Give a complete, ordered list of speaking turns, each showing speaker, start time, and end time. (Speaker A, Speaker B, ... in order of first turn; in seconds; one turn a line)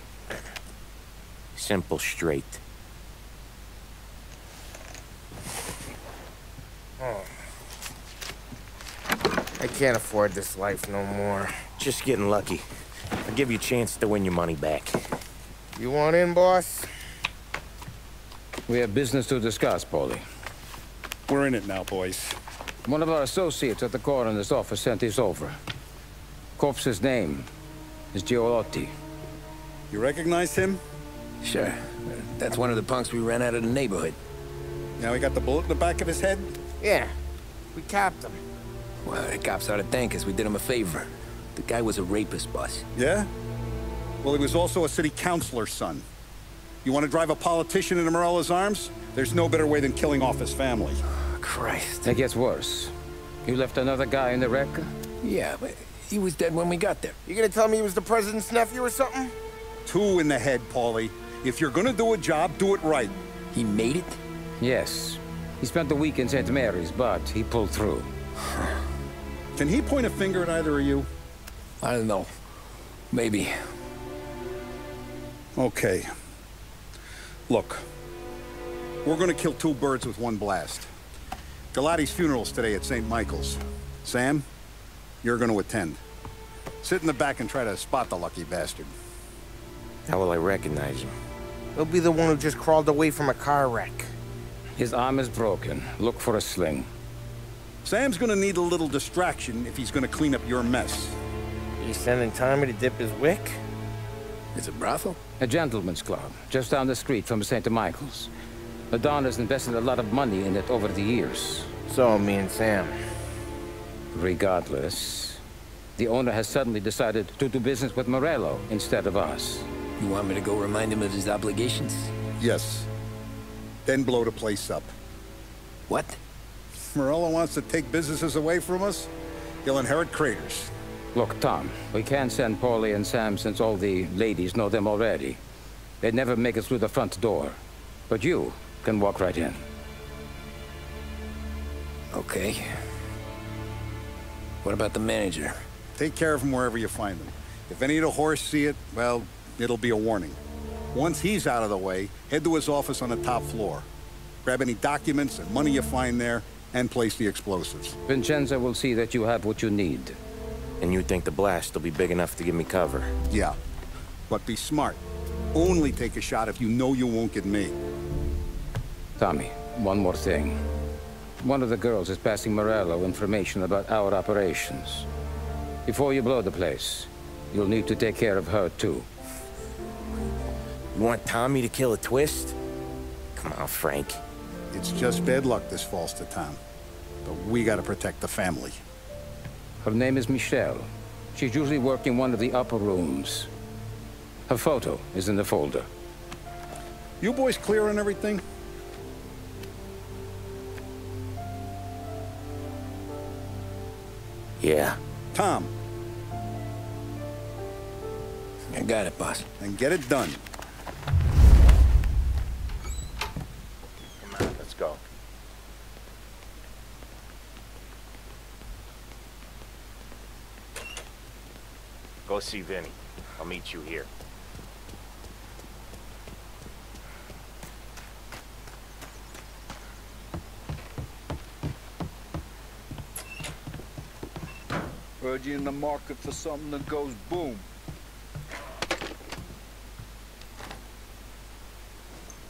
Speaker A: 1.6-2.6
Speaker B: 7.0-7.3
Speaker B: 9.6-11.6
Speaker A: 11.8-12.7
Speaker A: 13.2-15.1
Speaker B: 15.8-16.9
Speaker C: 18.7-20.2
Speaker D: 21.3-22.3
Speaker C: 22.9-25.6
Speaker C: 26.6-27.5
Speaker C: 28.1-28.9
Speaker D: 29.9-30.8
Speaker E: 31.4-34.2
Speaker D: 35.0-36.5
Speaker B: 36.8-37.1
Speaker B: 37.8-38.4
Speaker E: 39.0-42.9
Speaker D: 43.0-43.3
Speaker D: 44.2-46.0
Speaker D: 46.8-51.0
Speaker E: 51.4-52.1
Speaker C: 52.0-52.9
Speaker C: 53.5-54.9
Speaker E: 55.2-57.2
Speaker B: 57.3-59.3
Speaker D: 59.9-63.2
Speaker E: 63.5-64.2
Speaker C: 64.6-68.1
Speaker D: 69.5-71.1
Speaker E: 71.8-72.3
Speaker E: 73.1-73.5
Speaker D: 75.6-76.1
Speaker D: 77.5-77.8
Speaker D: 79.0-80.9
Speaker D: 81.7-84.5
Speaker D: 85.2-86.0
Speaker D: 86.8-88.9
Speaker A: 90.1-91.2
Speaker B: 91.8-94.1
Speaker C: 94.8-96.9
Speaker D: 97.8-101.2
Speaker B: 101.8-103.6
Speaker E: 104.5-105.2
Speaker C: 105.4-108.3
Speaker C: 108.9-111.7
Speaker B: 111.9-113.0
Speaker C: 114.1-115.4
Speaker C: 116.0-119.7
Speaker E: 120.0-122.1
Speaker D: 122.4-122.9
Speaker D: 123.8-124.9
Speaker E: 125.9-126.2
Speaker D: 126.9-129.1
Speaker D: 129.6-130.7
Speaker C: 131.1-135.4
Speaker C: 136.0-139.6
Speaker E: 142.1-142.8
Speaker E: 144.6-145.6
Speaker D: 146.0-150.4
Speaker D: 150.9-153.9
Speaker D: 154.4-158.0
Speaker C: 158.1-160.2
Speaker A: 160.8-163.1
Speaker D: 163.3-163.6
Speaker D: 164.3-165.0
Speaker D: 165.5-167.8
Speaker C: 169.2-170.6
Speaker C: 171.4-175.1
Speaker C: 175.9-179.1
Speaker A: 180.9-182.6
Speaker A: 183.4-184.2
Speaker D: 184.7-186.6
Speaker D: 187.2-188.8
Speaker C: 189.8-193.5
Speaker C: 194.5-195.9
Speaker D: 197.2-198.4
Speaker A: 204.6-205.0
Speaker D: 205.3-205.7
Speaker E: 208.7-209.5
Speaker D: 209.6-210.4
Speaker A: 214.2-215.0
Speaker A: 222.3-224.1
Speaker F: 235.2-237.7